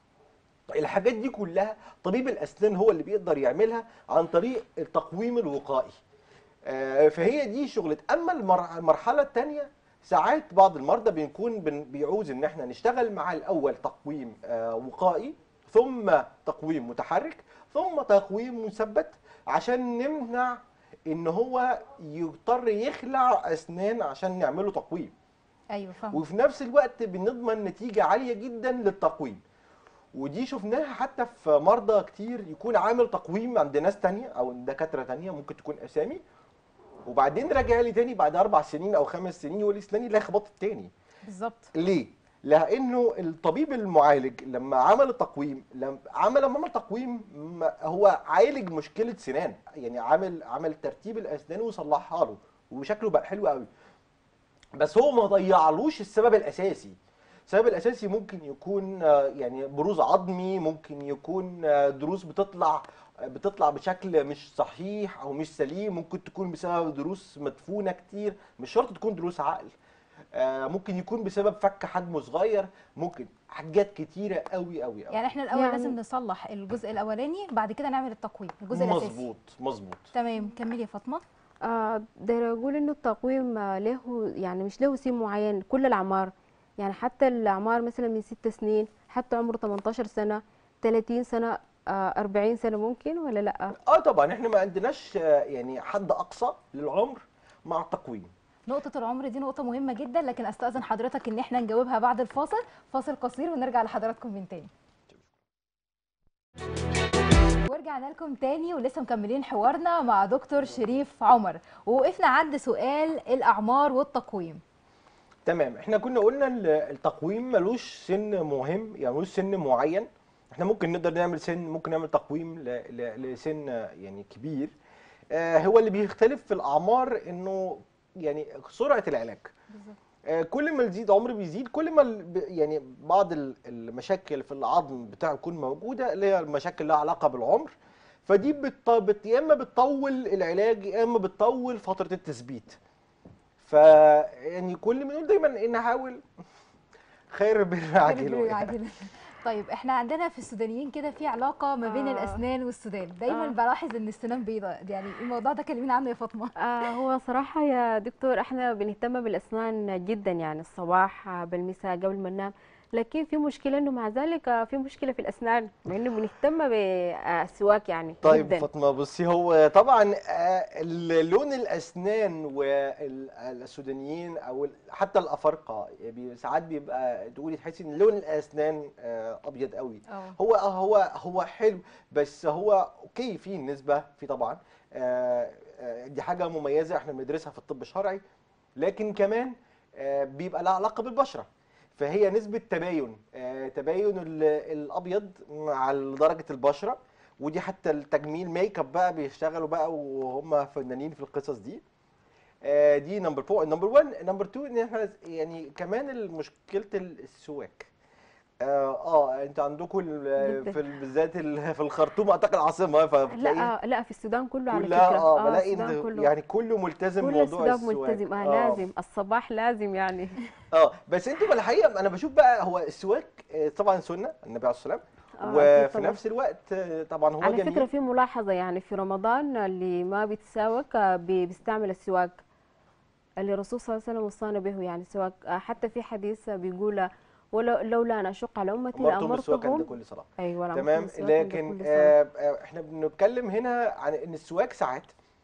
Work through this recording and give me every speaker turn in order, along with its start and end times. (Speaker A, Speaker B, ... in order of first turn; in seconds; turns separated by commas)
Speaker A: 0.7-6.0, Speaker A: 6.7-25.1, Speaker B: 25.7-26.2, Speaker A: 26.1-29.4, Speaker A: 30.1-36.2, Speaker A: 37.1-40.9, Speaker B: 41.3-41.7, Speaker A: 41.8-53.7, Speaker A: 54.8-57.0, Speaker A: 57.5-69.7, Speaker A: 70.3-75.2, Speaker B: 75.1-79.2, Speaker C: 75.5-76.0, Speaker A: 78.7-80.1, Speaker B: 80.1-81.2, Speaker C: 81.6-93.8, Speaker A: 93.8-98.3, Speaker B: 98.7-104.7, Speaker B: 107.7-114.6, Speaker A: 115.5-124.7, Speaker A: 125.3-129.5, Speaker B: 129.7-130.0, Speaker A: 130.3-137.7, Speaker A: 138.3-142.8, Speaker A: 143.6-146.2, Speaker A: 147.3-148.7, Speaker B: 148.0-156.5, Speaker C: 151.8-152.4, Speaker C: 153.3-153.6, Speaker C: 156.6-168.7, Speaker A: 168.2-188.2, Speaker B: 180.1-180.4, Speaker A: 188.8-201.8, Speaker A: 202.6-207.9, Speaker A: 208.6-213.7, Speaker C: 210.4-210.8, Speaker C: 213.3-216.3, Speaker A: 214.7-218.9, Speaker C: 217.2-220.3, Speaker A: 220.7-227.9, Speaker C: 225.4-226.2, Speaker C: 227.4-232.4, Speaker C: 233.4-239.9, Speaker A: 238.9-245.1, Speaker C: 240.4-242.1